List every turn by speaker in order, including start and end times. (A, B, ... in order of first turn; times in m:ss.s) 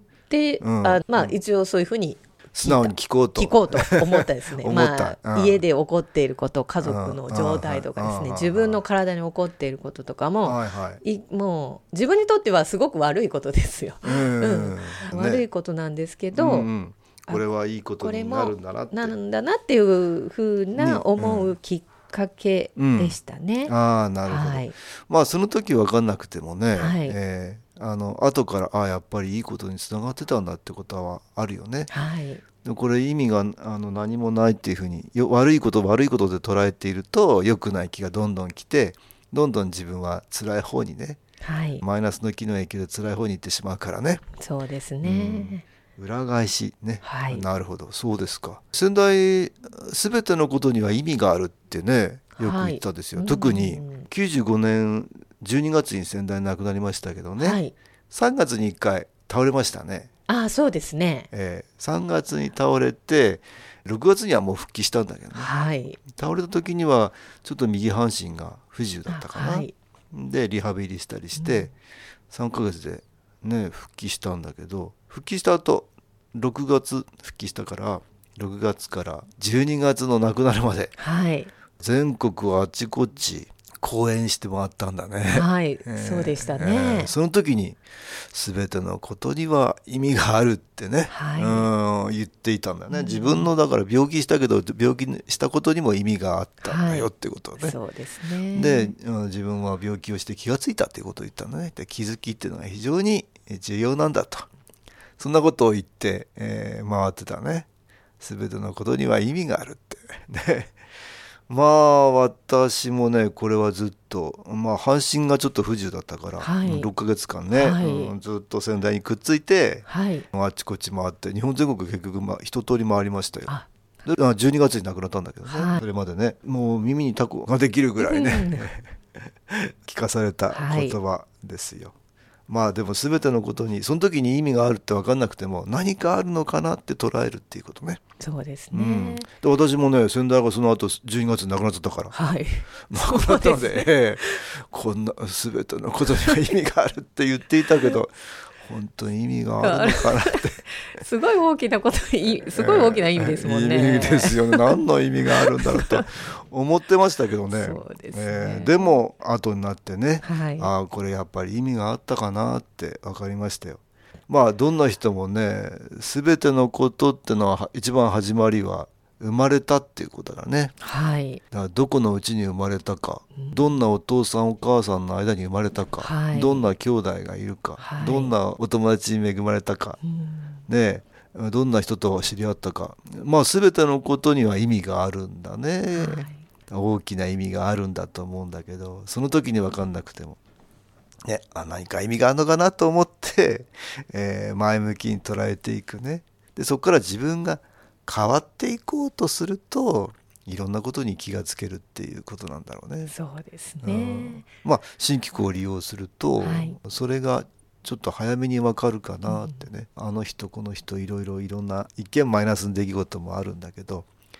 0:00.3-0:16.7 A
0:00.6-0:01.3 B
0:02.5-0:05.6 B
0:06.8-0:08.8 B
0:10.4-0:11.0 B
0:14.0-0:15.4 B
0:16.3-0:19.2 B
0:18.0-0:23.7 A
0:20.8-0:21.6 B
0:22.8-0:31.9 B
0:24.2-0:24.7 A
0:26.8-0:27.2 A
0:31.9-0:32.4 A
0:32.6-0:41.2 B
0:41.4-0:41.8 A
0:41.8-0:44.2 B
0:44.4-0:45.6 A
0:45.0-1:00.1 B
0:47.0-0:47.4 A
0:52.4-0:54.1 A
0:57.4-0:57.7 A
1:00.3-1:01.3 A
1:01.3-1:05.5 B
1:05.3-1:06.0 A
1:06.1-1:11.7 B
1:09.1-1:09.7 A
1:11.4-1:11.7 A
1:12.3-1:20.9 B
1:21.0-1:21.5 A
1:21.8-1:37.8 B
1:25.3-1:27.1 A
1:31.1-1:31.7 A
1:32.9-1:33.5 A
1:36.6-1:38.9 A
1:38.5-1:44.5 B
1:45.2-1:47.7 B
1:48.2-1:50.7 B
1:51.5-2:03.5 B
1:56.4-1:56.9 A
1:57.5-1:58.1 A
1:59.9-2:00.2 A
2:04.0-2:08.9 B
2:05.4-2:05.8 A
2:08.0-2:08.7 A
2:09.5-2:11.9 B
2:10.5-2:11.0 A
2:12.5-2:18.0 B
2:18.2-2:19.3 A
2:18.7-2:22.1 B
2:22.1-2:24.4 A
2:22.9-2:30.6 B
2:29.6-2:34.8 A
2:32.5-2:50.8 B
2:35.3-2:36.2 A
2:37.5-2:38.8 A
2:40.2-2:40.7 A
2:50.8-2:51.4 A
2:51.5-3:00.0 B
2:56.0-2:56.6 A
2:57.8-2:58.3 A
3:00.0-3:00.5 A
3:00.7-3:10.4 B
3:05.9-3:06.4 A
3:11.2-3:23.1 B
3:23.1-3:24.5 A
3:23.8-3:34.1 B
3:26.4-3:26.8 A
3:29.3-3:29.6 A